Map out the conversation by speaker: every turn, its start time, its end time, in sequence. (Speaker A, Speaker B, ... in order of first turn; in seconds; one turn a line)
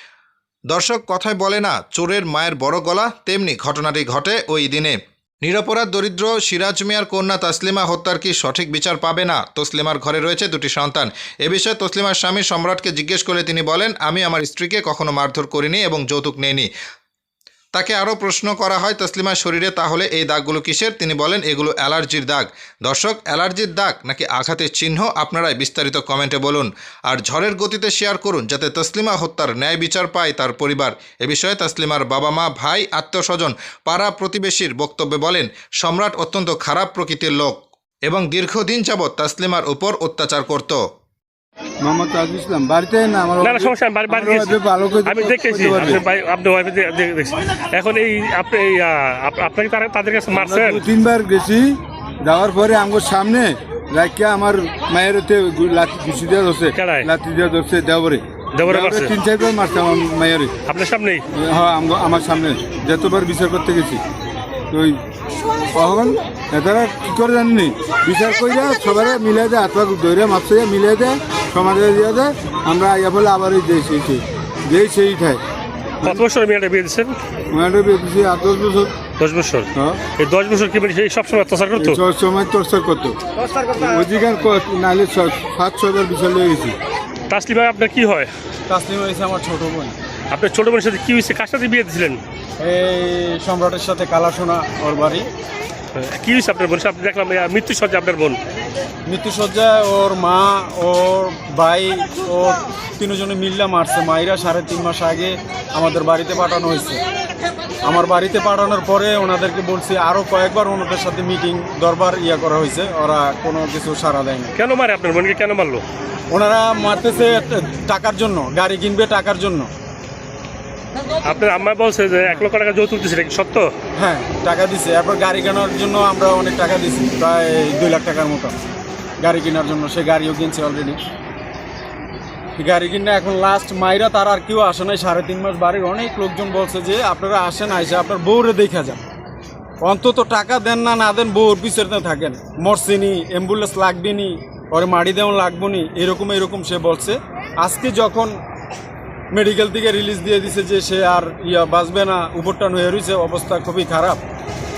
Speaker A: 0.7-16.7
Speaker A: 17.7-40.8
Speaker B: 41.8-46.0
Speaker C: 43.4-50.8
Speaker B: 50.3-51.6
Speaker B: 52.2-60.5
Speaker C: 56.8-57.1
Speaker C: 58.5-59.1
Speaker C: 60.6-61.2
Speaker B: 61.4-64.0
Speaker B: 64.7-65.0
Speaker B: 65.8-75.4
Speaker C: 76.0-77.2
Speaker B: 77.5-78.9
Speaker C: 79.2-82.0
Speaker B: 81.8-83.2
Speaker D: 83.4-84.2
Speaker B: 83.8-86.7
Speaker C: 87.3-88.3
Speaker D: 88.7-90.0
Speaker C: 90.3-92.2
Speaker D: 92.6-95.3
Speaker C: 95.9-98.4
Speaker D: 99.0-107.0
Speaker D: 107.8-114.5
Speaker C: 114.6-115.8
Speaker D: 116.3-119.7
Speaker C: 121.2-123.7
Speaker D: 124.0-128.5
Speaker D: 129.2-131.0
Speaker D: 132.6-139.0
Speaker D: 139.8-148.3
Speaker D: 149.3-154.2